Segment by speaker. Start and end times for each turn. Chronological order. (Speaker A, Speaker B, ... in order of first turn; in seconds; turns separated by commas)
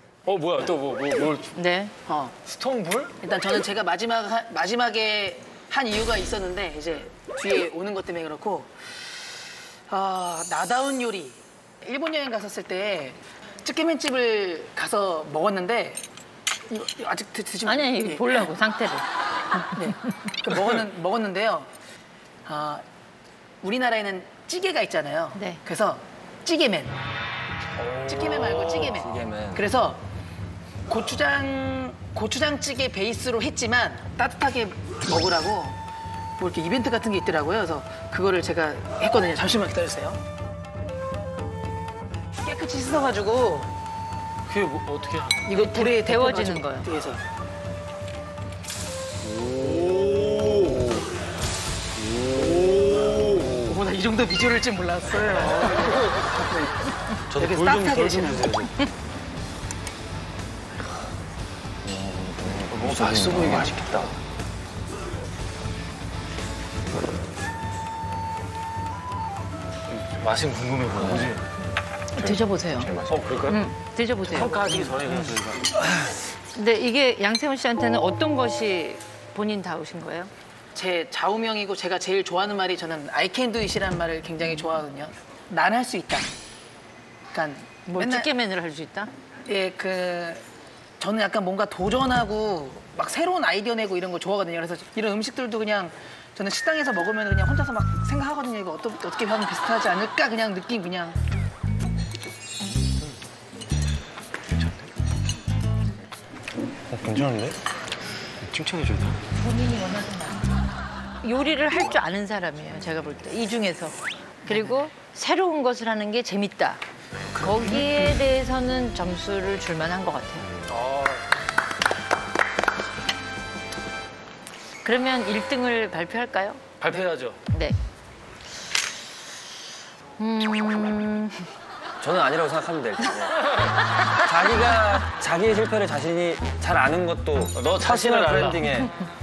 Speaker A: 0.2-1.5, Speaker B: 1.6-1.9, Speaker C: 2.0-2.4, Speaker A: 2.4-3.1, Speaker C: 3.2-8.7, Speaker C: 9.9-16.0, Speaker C: 16.7-18.5, Speaker B: 17.6-19.1, Speaker C: 19.5-21.7, Speaker C: 22.4-22.8, Speaker C: 23.6-26.9, Speaker D: 27.8-29.6, Speaker C: 27.9-30.0, Speaker C: 30.9-35.8, Speaker C: 36.4-40.2, Speaker C: 42.4-43.7, Speaker A: 44.5-45.5, Speaker C: 45.5-47.2, Speaker B: 45.5-46.9, Speaker A: 49.4-51.0, Speaker C: 53.5-56.7, Speaker D: 57.3-58.7, Speaker C: 57.3-58.7, Speaker D: 61.8-64.1, Speaker A: 62.7-64.1, Speaker A: 70.0-71.4, Speaker D: 71.0-71.3, Speaker B: 72.1-72.9, Speaker D: 72.2-73.2, Speaker A: 73.0-73.6, Speaker B: 73.5-74.6, Speaker A: 74.2-75.7, Speaker B: 76.5-80.3, Speaker C: 80.7-86.3, Speaker C: 87.3-88.3, Speaker B: 87.9-89.1, Speaker C: 89.5-90.4, Speaker C: 91.0-101.2, Speaker D: 106.9-107.5, Speaker A: 108.4-109.2, Speaker B: 109.4-110.4, Speaker B: 111.2-116.8, Speaker C: 114.5-114.7, Speaker B: 117.3-120.5, Speaker A: 117.4-118.2, Speaker A: 120.7-121.2, Speaker B: 124.8-126.6, Speaker A: 126.8-127.4, Speaker B: 127.5-127.8, Speaker B: 130.2-131.5, Speaker D: 132.0-133.4, Speaker D: 134.1-138.9, Speaker A: 137.5-138.7